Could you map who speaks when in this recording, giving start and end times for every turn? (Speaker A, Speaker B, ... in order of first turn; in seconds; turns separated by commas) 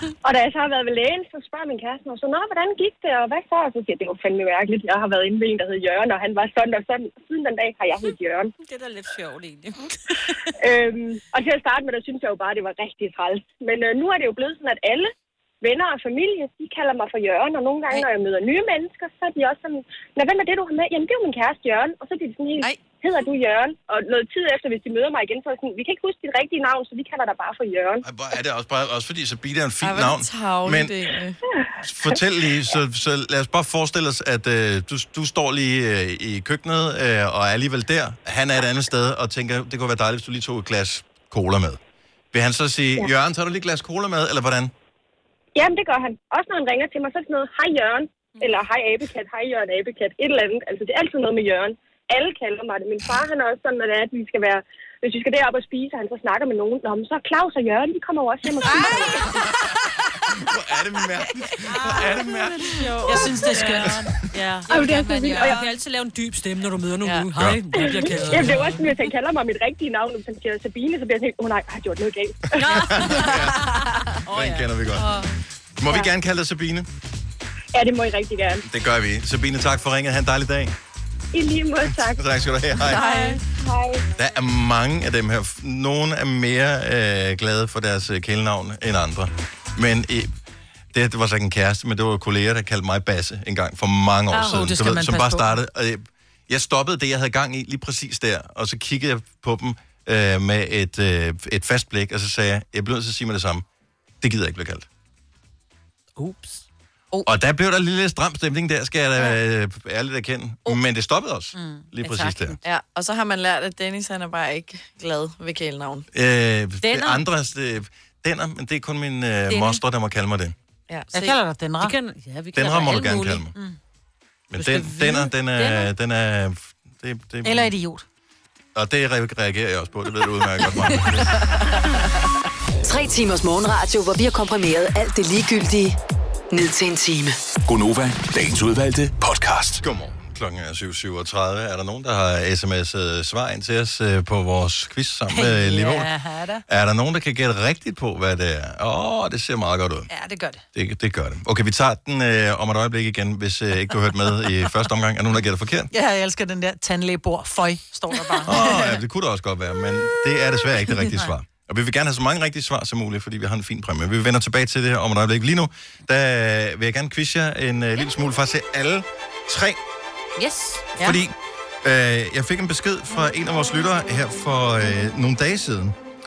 Speaker A: 0.2-8.5, Speaker B: 8.6-10.5, Speaker A: 10.6-28.0, Speaker C: 28.0-30.9, Speaker D: 29.8-31.4, Speaker C: 31.8-41.8, Speaker C: 42.3-44.7, Speaker A: 45.6-59.3, Speaker C: 60.3-62.7, Speaker B: 61.7-62.1, Speaker B: 62.6-68.8, Speaker E: 63.0-65.7, Speaker A: 64.7-65.6, Speaker D: 67.0-67.3, Speaker C: 67.4-67.6, Speaker E: 68.0-68.8, Speaker A: 68.3-72.9, Speaker B: 72.6-74.7, Speaker C: 72.6-73.8, Speaker C: 74.3-75.1, Speaker C: 75.8-76.9, Speaker A: 77.7-78.6, Speaker C: 78.6-80.8, Speaker A: 81.3-82.2, Speaker C: 81.8-83.1, Speaker D: 82.8-83.4, Speaker A: 83.6-84.0, Speaker C: 84.2-90.3, Speaker C: 90.9-103.7, Speaker E: 94.3-95.6, Speaker C: 104.2-104.9, Speaker B: 106.2-106.6, Speaker C: 107.2-112.6, Speaker E: 111.5-111.8, Speaker B: 112.0-112.6, Speaker D: 112.6-116.1, Speaker C: 116.1-120.5, Speaker B: 116.8-117.2, Speaker B: 119.5-119.8, Speaker D: 120.9-121.4, Speaker E: 121.1-122.0, Speaker B: 121.8-123.5, Speaker C: 122.5-123.5, Speaker C: 124.5-127.7, Speaker B: 124.6-125.9, Speaker E: 127.4-128.1, Speaker C: 128.8-131.4, Speaker F: 132.8-136.0, Speaker F: 136.5-137.4, Speaker G: 137.7-139.8, Speaker C: 139.8-146.1, Speaker E: 145.3-146.6, Speaker C: 146.7-150.1, Speaker E: 150.1-150.6, Speaker C: 150.7-155.9, Speaker E: 155.9-158.6, Speaker C: 158.5-169.8, Speaker B: 170.4-170.9, Speaker C: 171.0-176.0